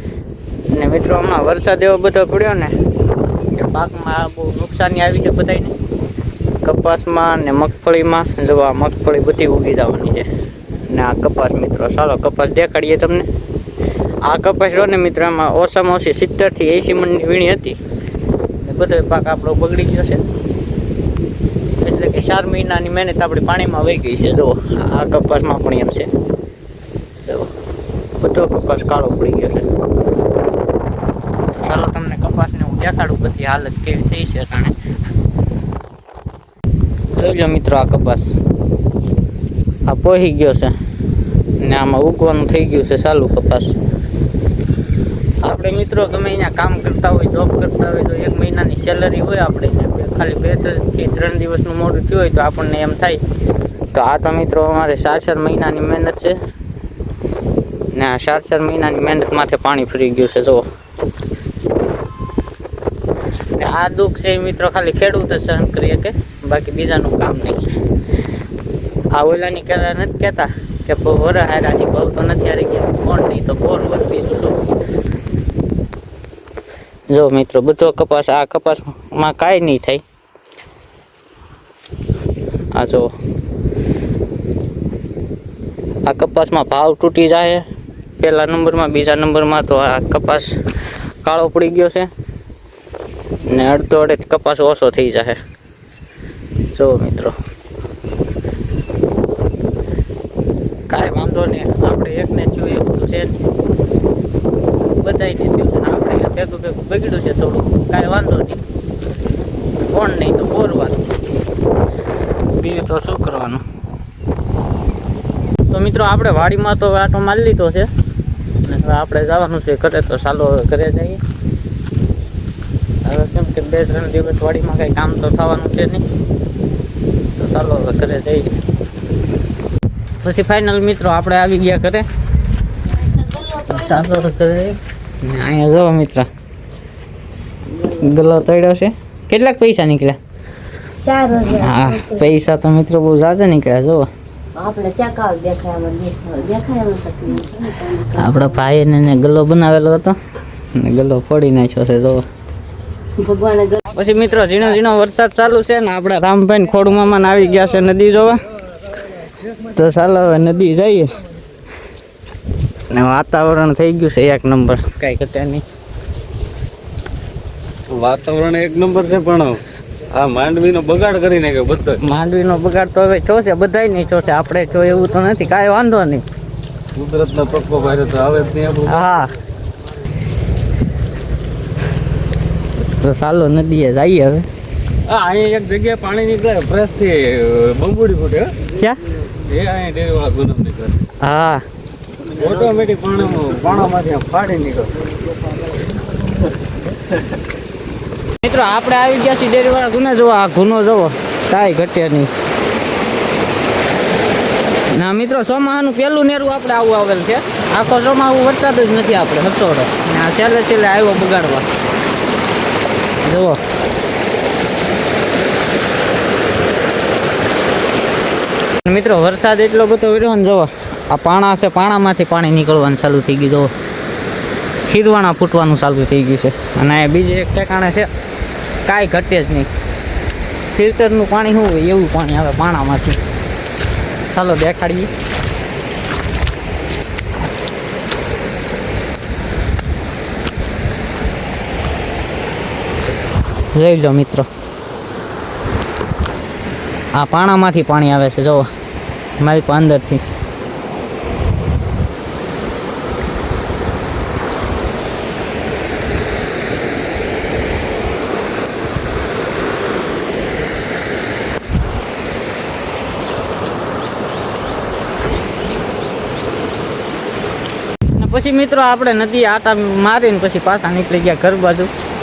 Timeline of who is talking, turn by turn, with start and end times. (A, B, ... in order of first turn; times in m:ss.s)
0:00.7-0:02.8 A
0:03.5-0:05.7 A
0:06.6-0:10.3 A
0:10.8-0:13.3 A
0:14.2-0:17.8 A
0:18.6-0:20.3 A
0:21.8-0:26.1 A
0:27.2-0:27.5 A
0:28.2-0:29.7 A
0:31.6-0:34.8 A
0:37.1-0:38.3 A
0:39.9-0:40.8 A
0:41.6-0:43.7 A
0:45.4-0:53.2 A
0:53.9-0:56.4 A
0:57.9-1:00.7 A
1:03.5-1:07.7 A
1:09.1-1:14.7 A
1:17.1-1:20.0 A
1:22.7-1:23.1 A
1:26.0-1:27.6 A
1:28.2-1:30.6 A
1:31.2-1:32.1 A
1:33.4-1:35.4 A
1:36.7-1:37.3 A
1:40.9-1:43.3 A
1:44.9-1:48.6 A
1:49.9-1:51.0 A
1:52.6-1:53.6 A
1:55.7-1:57.9 A
1:58.6-2:01.2 A
2:03.0-2:06.0 A
2:07.4-2:08.5 A
2:10.2-2:12.1 A
2:12.9-2:16.3 A
2:17.7-2:20.2 A
2:21.0-2:22.1 B
2:21.1-2:24.1 A
2:24.5-2:28.5 B
2:27.9-2:30.2 A
2:30.7-2:32.2 A
2:33.2-2:33.8 B
2:33.8-2:38.4 A
2:39.5-2:41.2 A
2:42.9-2:45.6 A
2:47.9-2:52.0 C
2:52.0-2:56.2 A
2:56.9-2:59.1 C
2:58.9-2:59.3 A
3:02.8-3:04.4 A
3:05.1-3:08.6 C
3:08.7-3:09.0 A
3:09.2-3:11.1 C
3:11.2-3:11.6 A
3:12.2-3:15.0 C
3:18.4-3:22.3 A
3:24.9-3:31.7 A
3:33.2-3:33.6 A
3:38.8-3:43.7 A
3:44.9-3:48.1 A
3:48.8-3:49.7 A
3:50.7-3:53.2 A
3:54.3-3:55.1 A
4:03.7-4:04.5 A
4:07.1-4:08.7 A
4:09.4-4:10.2 A
4:28.2-4:31.9 A